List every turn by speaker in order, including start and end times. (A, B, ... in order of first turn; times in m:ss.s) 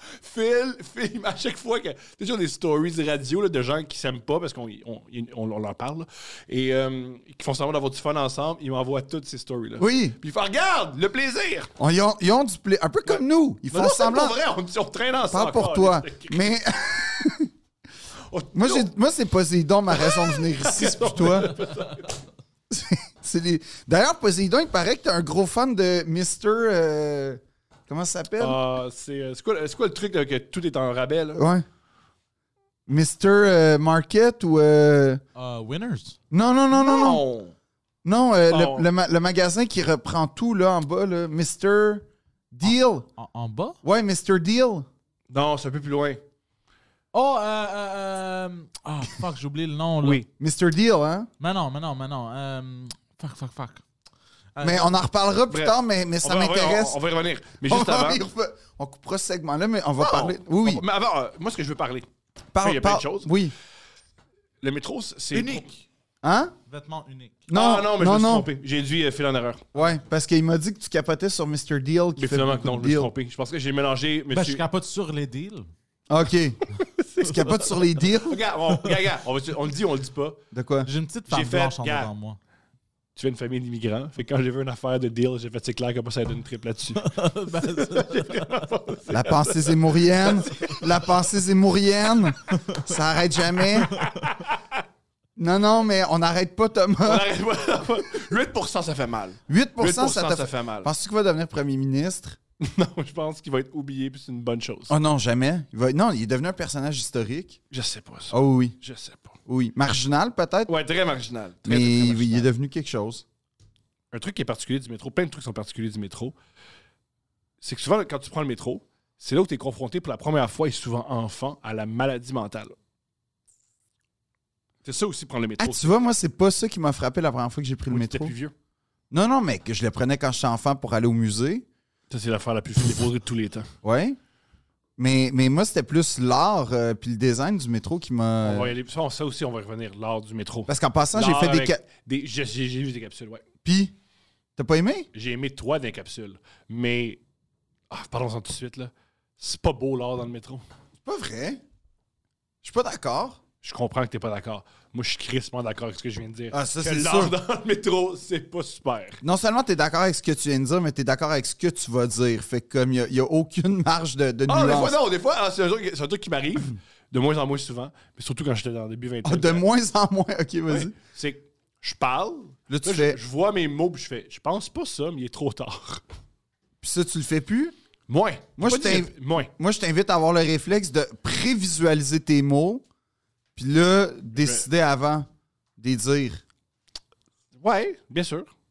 0:00.2-0:11.7 A
0:09.8-0:10.2 B
0:11.8-0:14.4 B
0:13.0-0:16.5 A
0:15.3-0:17.5 B
0:18.3-0:18.9 A
0:18.5-0:21.6 B
0:19.9-0:22.1 A
0:22.7-0:28.6 B
0:28.4-0:31.4 A
0:31.4-0:31.6 B
0:32.9-0:35.2 B
0:35.4-0:36.2 C
0:36.3-0:37.2 B
0:36.7-0:37.5 A
0:38.0-0:43.0 B
0:38.5-0:38.9 A
0:42.7-0:43.8 C
0:43.8-0:44.9 B
0:45.3-0:46.2 A
0:47.1-0:50.2 C
0:50.4-0:51.3 B
0:51.4-0:53.8 C
0:54.5-0:55.0 C
0:54.6-0:57.0 B
0:55.5-0:58.2 A
0:57.6-1:00.8 B
1:00.0-1:02.0 A
1:02.5-1:03.5 B
1:02.6-1:03.3 A
1:04.6-1:05.7 A
1:05.3-1:05.8 C
1:06.2-1:06.5 B
1:06.7-1:07.4 C
1:07.5-1:08.5 B
1:07.5-1:09.6 A
1:09.7-1:13.1 B
1:12.2-1:14.6 A
1:14.3-1:15.7 C
1:16.1-1:16.6 B
1:16.8-1:20.4 A
1:17.2-1:18.4 B
1:20.5-1:20.9 B
1:20.8-1:22.4 C
1:21.3-1:22.1 A
1:23.2-1:30.8 A
1:27.0-1:28.6 C
1:29.1-1:34.0 B
1:33.8-1:34.8 A
1:35.4-1:37.3 B
1:37.0-1:40.9 A
1:39.5-1:42.4 B
1:42.6-1:45.0 A
1:44.9-1:47.6 B
1:47.7-1:49.4 A
1:48.3-1:48.8 B
1:49.5-1:50.7 B
1:50.7-1:52.5 A
1:51.6-1:53.2 B
1:54.1-1:56.3 A
1:57.6-2:02.7 A
2:04.8-2:06.0 A
2:05.6-2:08.3 B
2:07.9-2:08.5 A
2:09.1-2:11.6 B
2:12.1-2:13.7 A
2:13.8-2:14.2 B
2:15.0-2:18.7 B
2:18.4-2:23.4 A
2:20.7-2:21.8 B
2:23.6-2:23.9 B
2:24.6-2:25.1 B
2:25.1-2:27.2 A
2:27.9-2:30.6 A
2:31.0-2:31.6 B
2:32.6-2:33.4 B
2:33.6-2:39.2 A
2:36.5-2:37.3 B
2:39.2-2:45.0 B
2:44.5-2:49.6 A
2:49.2-2:50.9 B
2:50.7-2:56.0 A
2:52.7-2:53.2 B
2:56.8-2:57.7 B
2:58.1-2:59.5 A
2:58.6-3:02.8 B
3:03.6-3:06.4 B
3:07.6-3:08.5 A